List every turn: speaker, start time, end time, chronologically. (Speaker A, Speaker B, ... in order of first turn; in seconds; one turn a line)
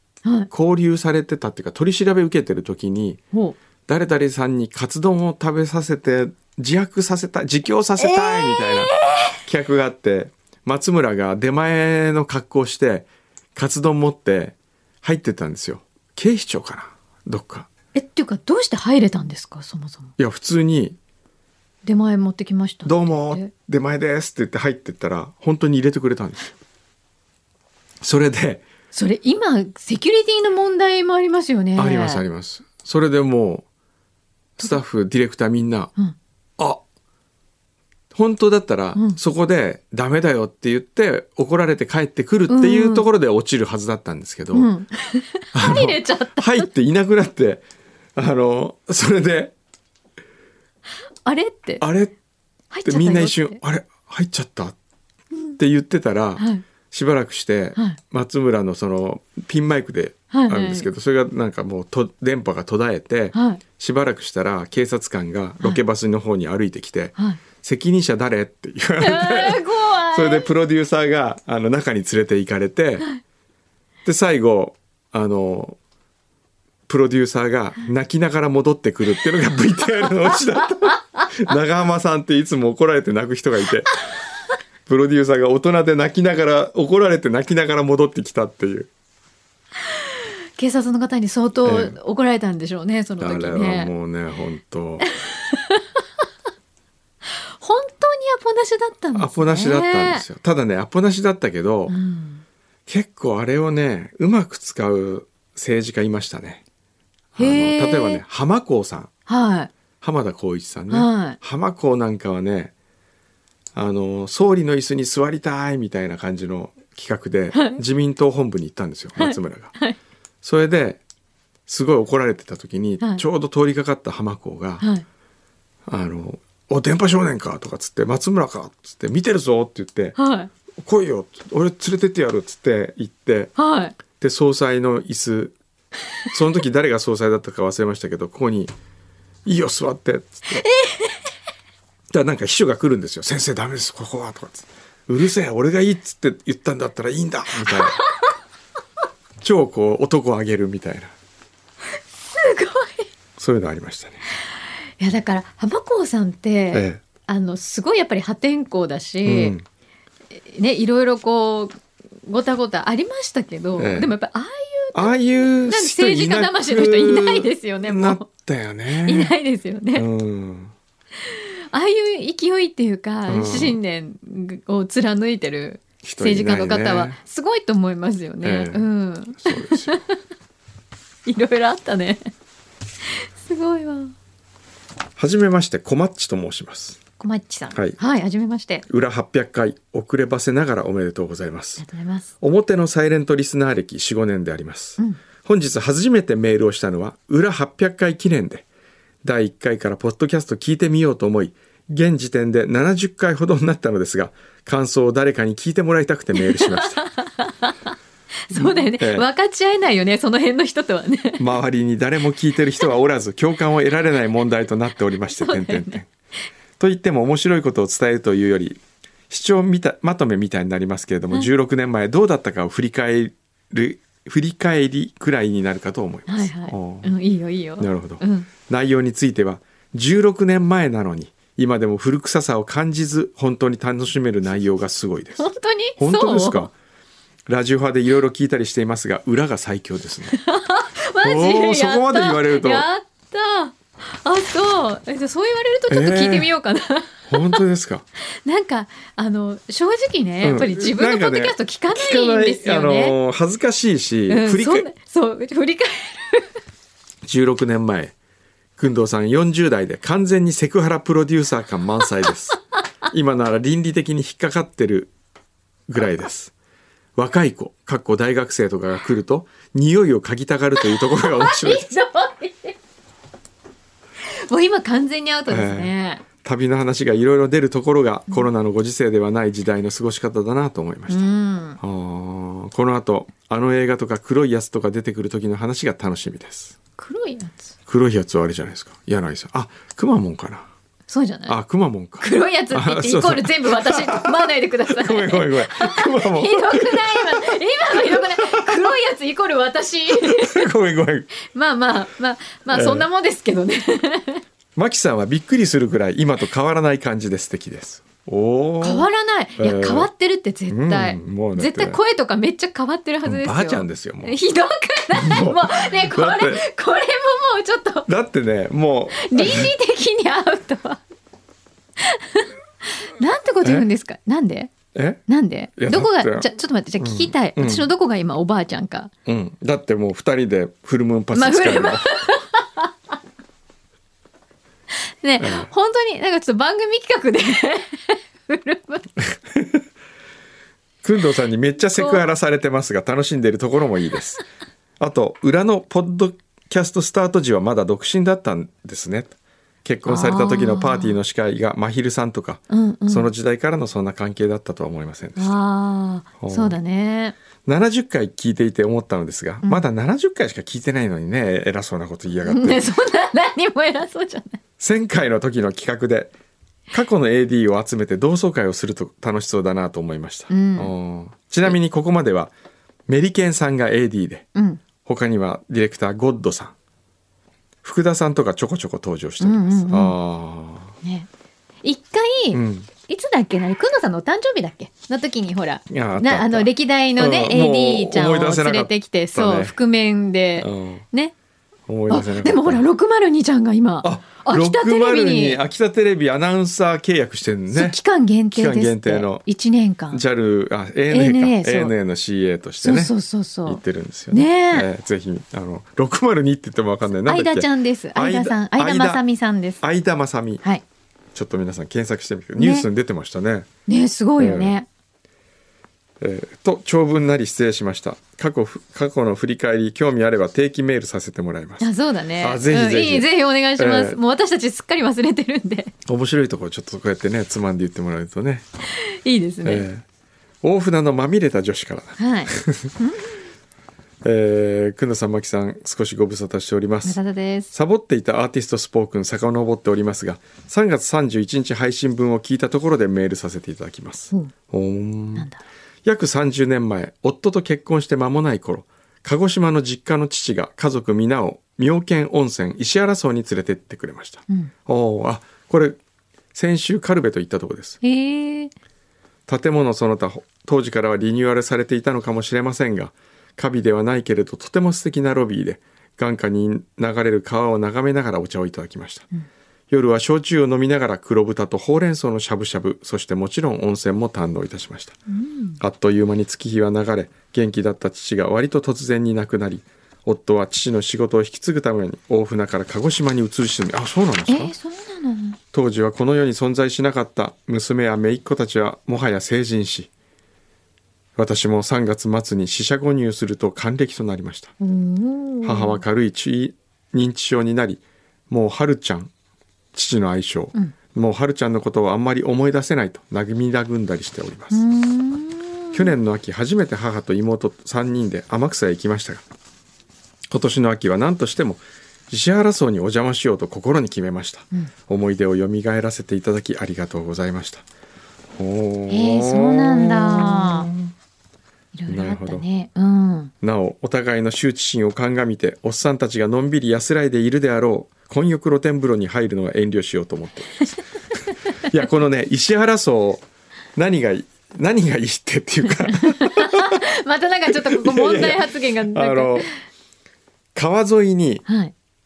Speaker A: 0.5-3.2
Speaker A: 3.9-17.7
Speaker B: 8.1-9.3
Speaker B: 17.9-20.1
Speaker A: 20.2-21.0
Speaker B: 21.9-23.5
Speaker A: 22.9-26.5
Speaker A: 28.0-28.6
Speaker B: 28.9-32.2
Speaker A: 31.8-33.6
Speaker A: 34.6-35.9
Speaker A: 38.1-44.7
Speaker B: 42.5-43.1
Speaker B: 44.5-46.7
Speaker A: 45.5-47.6
Speaker A: 48.2-49.5
Speaker B: 51.2-51.8
Speaker A: 51.8-52.1
Speaker B: 52.7-53.6
Speaker A: 52.9-54.8
Speaker A: 55.6-73.1
Speaker B: 56.4-56.6
Speaker B: 60.3-60.9
Speaker B: 63.3-63.6
Speaker B: 69.0-70.5
Speaker A: 74.0-75.8
Speaker A: 76.9-84.0
Speaker A: 84.9-88.9
Speaker B: 90.6-93.9
Speaker A: 91.7-92.0
Speaker A: 93.2-95.1
Speaker B: 95.3-95.8
Speaker B: 97.6-100.2
Speaker A: 99.2-101.9
Speaker B: 101.9-102.4
Speaker A: 102.9-106.6
Speaker A: 107.3-109.1
Speaker B: 107.4-108.2
Speaker B: 109.3-109.7
Speaker A: 110.0-112.7
Speaker B: 110.9-111.4
Speaker A: 113.8-119.8
Speaker B: 117.5-117.8
Speaker B: 119.2-120.0
Speaker A: 120.4-121.0
Speaker A: 121.7-124.9
Speaker A: 125.9-130.2
Speaker B: 130.2-130.5
Speaker A: 130.8-135.6
Speaker B: 133.6-134.0
Speaker A: 136.3-138.7
Speaker A: 139.5-140.7
Speaker B: 140.8-141.1
Speaker A: 142.1-148.0
Speaker A: 149.4-151.1
Speaker B: 152.3-153.1
Speaker A: 153.4-154.2
Speaker B: 155.0-159.6
Speaker A: 156.7-157.0
Speaker A: 159.2-159.6
Speaker B: 160.3-161.8
Speaker B: 162.2-168.3
Speaker A: 163.8-164.1
Speaker A: 164.9-169.3
Speaker B: 169.0-170.1
Speaker A: 169.9-170.7
Speaker B: 171.3-180.1
Speaker A: 173.3-173.8
Speaker A: 176.0-177.2
Speaker A: 178.4-178.8
Speaker A: 179.4-180.0
Speaker B: 181.2-182.2
Speaker B: 183.5-184.1
Speaker A: 185.2-187.0
Speaker B: 187.2-188.8
Speaker A: 188.9-191.8
Speaker B: 191.8-192.3
Speaker A: 192.4-198.7
Speaker A: 199.2-207.0
Speaker B: 206.4-207.9
Speaker B: 208.5-211.5
Speaker A: 208.5-209.3
Speaker A: 211.4-216.1
Speaker B: 215.3-216.0
Speaker A: 216.8-227.1
Speaker B: 226.3-228.5
Speaker A: 227.8-236.7
Speaker B: 235.4-236.7
Speaker A: 237.5-240.4
Speaker B: 240.3-247.6
Speaker A: 241.2-242.9
Speaker A: 245.9-246.5
Speaker A: 247.3-248.1
Speaker B: 248.4-253.2
Speaker A: 250.4-254.9
Speaker B: 254.3-256.5
Speaker A: 257.2-258.1
Speaker A: 258.8-265.1
Speaker A: 265.9-266.5
Speaker A: 267.2-271.8
Speaker B: 270.9-272.8
Speaker B: 274.2-276.2
Speaker A: 275.5-281.2
Speaker B: 281.1-281.8
Speaker A: 281.8-286.8
Speaker B: 287.0-287.7
Speaker A: 287.9-290.7
Speaker B: 291.1-291.6
Speaker A: 291.5-297.4
Speaker B: 292.2-300.6
Speaker A: 298.1-298.8
Speaker A: 300.2-301.3
Speaker B: 301.5-304.4
Speaker A: 302.7-303.1
Speaker A: 304.8-310.1
Speaker B: 308.8-318.1
Speaker A: 310.7-312.0
Speaker A: 313.2-314.4
Speaker A: 315.1-316.6
Speaker A: 318.1-319.7
Speaker B: 319.2-321.0
Speaker B: 322.0-324.7
Speaker A: 324.9-325.2
Speaker B: 325.3-329.1
Speaker A: 325.8-326.5
Speaker A: 327.0-327.9
Speaker A: 329.3-332.1
Speaker B: 331.3-332.9
Speaker B: 335.2-339.1
Speaker A: 335.4-335.7
Speaker A: 339.3-339.8
Speaker A: 341.0-344.4
Speaker B: 341.9-342.2
Speaker A: 345.0-355.6
Speaker B: 350.1-351.1
Speaker B: 352.7-353.3
Speaker B: 355.4-357.4
Speaker A: 356.4-356.8
Speaker A: 357.6-362.9
Speaker B: 362.4-364.6
Speaker A: 364.8-366.3
Speaker A: 366.9-372.5
Speaker B: 370.5-370.9
Speaker A: 373.1-374.5
Speaker B: 374.6-374.8
Speaker A: 375.0-376.7
Speaker A: 377.8-380.9
Speaker B: 379.4-380.2
Speaker B: 381.0-381.3
Speaker B: 381.8-391.3
Speaker A: 382.5-382.9
Speaker A: 385.9-389.8
Speaker A: 390.6-391.1
Speaker A: 391.9-392.9
Speaker B: 392.1-395.6
Speaker A: 394.0-398.0
Speaker B: 397.7-400.2
Speaker A: 398.5-399.4
Speaker A: 400.1-403.1
Speaker B: 401.1-401.9
Speaker B: 402.8-404.9
Speaker A: 403.7-409.2
Speaker B: 407.3-409.8
Speaker A: 409.8-410.6
Speaker A: 411.3-413.7
Speaker B: 412.6-412.9
Speaker B: 413.9-414.9
Speaker A: 414.4-414.8
Speaker A: 416.2-424.2
Speaker B: 421.8-425.9
Speaker A: 426.1-428.6
Speaker B: 428.9-429.9
Speaker A: 429.6-430.1
Speaker A: 430.6-432.9
Speaker B: 432.2-433.3
Speaker A: 434.2-437.2
Speaker B: 437.1-437.7
Speaker A: 437.7-445.5
Speaker B: 445.4-445.6
Speaker A: 446.1-456.0
Speaker A: 456.5-458.0
Speaker B: 458.0-458.7
Speaker A: 459.5-469.3
Speaker A: 469.9-475.2
Speaker B: 475.3-475.8
Speaker A: 475.8-484.7
Speaker B: 484.5-485.6
Speaker A: 485.7-490.1
Speaker A: 491.4-494.7
Speaker B: 494.8-496.0
Speaker A: 495.6-499.3
Speaker A: 499.9-504.8
Speaker B: 504.7-506.1
Speaker A: 505.9-509.4
Speaker A: 510.5-517.8
Speaker A: 518.6-521.1
Speaker B: 519.1-520.9
Speaker B: 521.9-523.5
Speaker A: 522.1-522.6
Speaker A: 523.6-531.0
Speaker A: 531.8-537.0
Speaker B: 536.1-539.7
Speaker A: 537.7-539.7
Speaker A: 540.8-541.6
Speaker B: 541.6-541.9